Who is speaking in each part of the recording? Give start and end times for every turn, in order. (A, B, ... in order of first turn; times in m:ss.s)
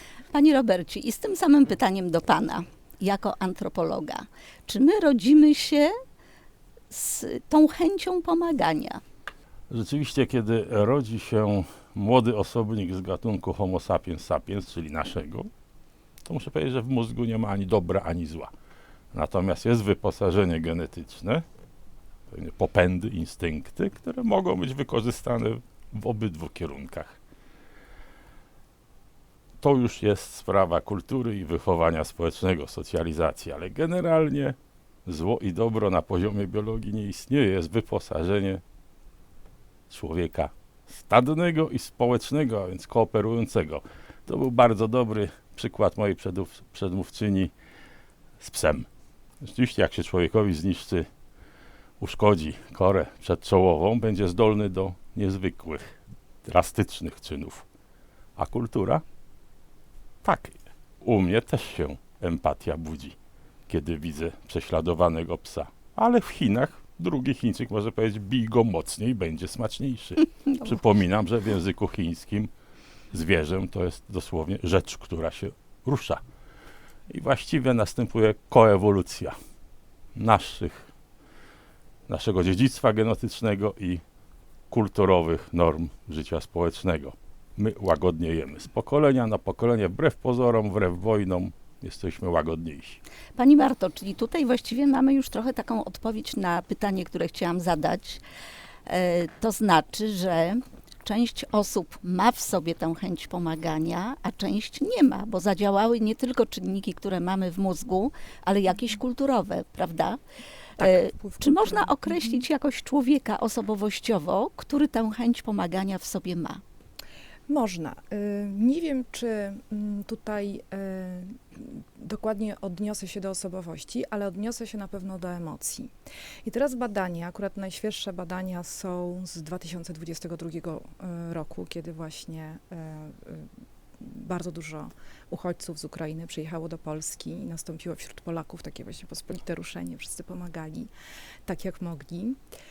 0:00.3-0:05.9 A
0:06.9-0:09.0 A
0:09.7-0:15.5 B
0:16.2-0:18.5 B
0:19.1-0:21.4 B
0:22.3-0:27.2 B
0:29.6-0:38.6 B
0:39.9-0:47.5 B
0:48.4-0:48.9 B
0:49.4-0:51.1 B
0:52.0-0:57.7 B
0:58.4-0:59.0 B
1:00.2-1:03.2 B
1:03.7-1:12.5 B
1:13.1-1:16.2 B
1:17.1-1:19.3 B
1:20.2-1:20.9 B
1:22.1-1:24.0 B
1:24.7-1:33.0 B
1:33.4-1:38.2 A
1:38.9-1:50.2 A
1:50.8-1:52.4 C
1:50.8-1:56.6 A
1:57.5-2:05.9 C
2:06.4-2:13.5 C
2:14.0-2:20.9 C
2:21.5-2:22.4 C